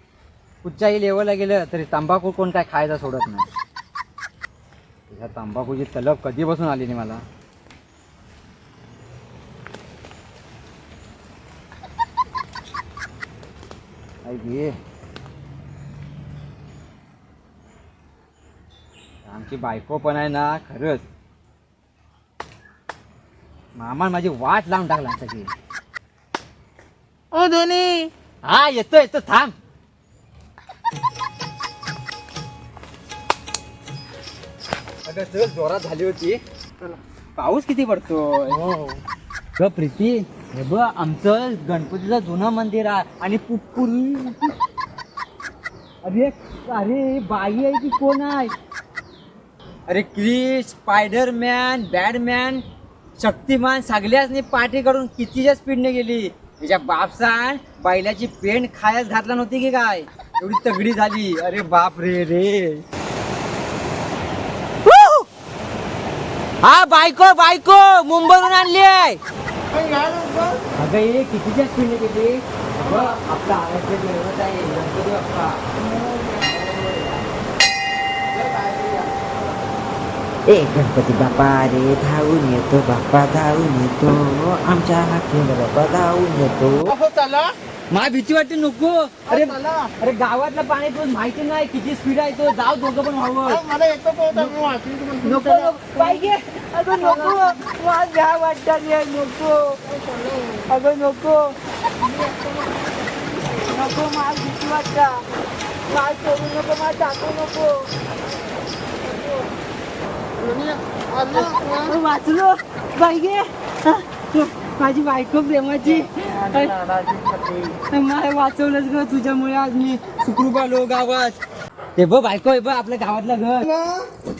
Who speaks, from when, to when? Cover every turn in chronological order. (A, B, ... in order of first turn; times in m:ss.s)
0:00.6-0:03.5 A
0:05.1-0:07.2 A
0:14.2-0:14.8 A
0:19.2-0:21.0 A
0:23.8-0:25.5 A
0:27.3-0:28.1 B
0:28.4-0:29.5 A
0:35.0-0:36.4 A
0:37.4-0:38.6 A
0:38.5-0:39.0 B
0:39.6-0:44.5 A
0:46.0-0:48.5 A
0:49.9-0:52.6 A
0:53.2-1:02.8 A
1:04.8-1:05.2 A
1:06.6-1:09.2 A
1:09.7-1:10.6 B
1:10.8-1:15.7 A
1:15.7-1:16.7 B
1:16.5-1:17.2 A
1:18.3-1:19.3 B
1:20.5-1:26.9 C
1:20.7-1:21.5 A
1:22.1-1:26.7 A
1:26.8-1:27.5 B
1:27.9-1:33.6 A
1:29.3-1:29.9 B
1:33.4-1:36.3 B
1:34.3-1:39.8 A
1:39.8-1:40.7 B
1:40.7-1:41.5 A
1:42.0-1:43.8 B
1:43.7-1:45.2 A
1:45.9-1:47.8 A
1:49.0-1:49.3 B
1:50.4-1:52.0 B
1:51.3-1:56.7 A
1:55.8-1:57.8 B
1:57.9-2:01.4 A
2:02.0-2:03.6 A
2:03.6-2:04.1 B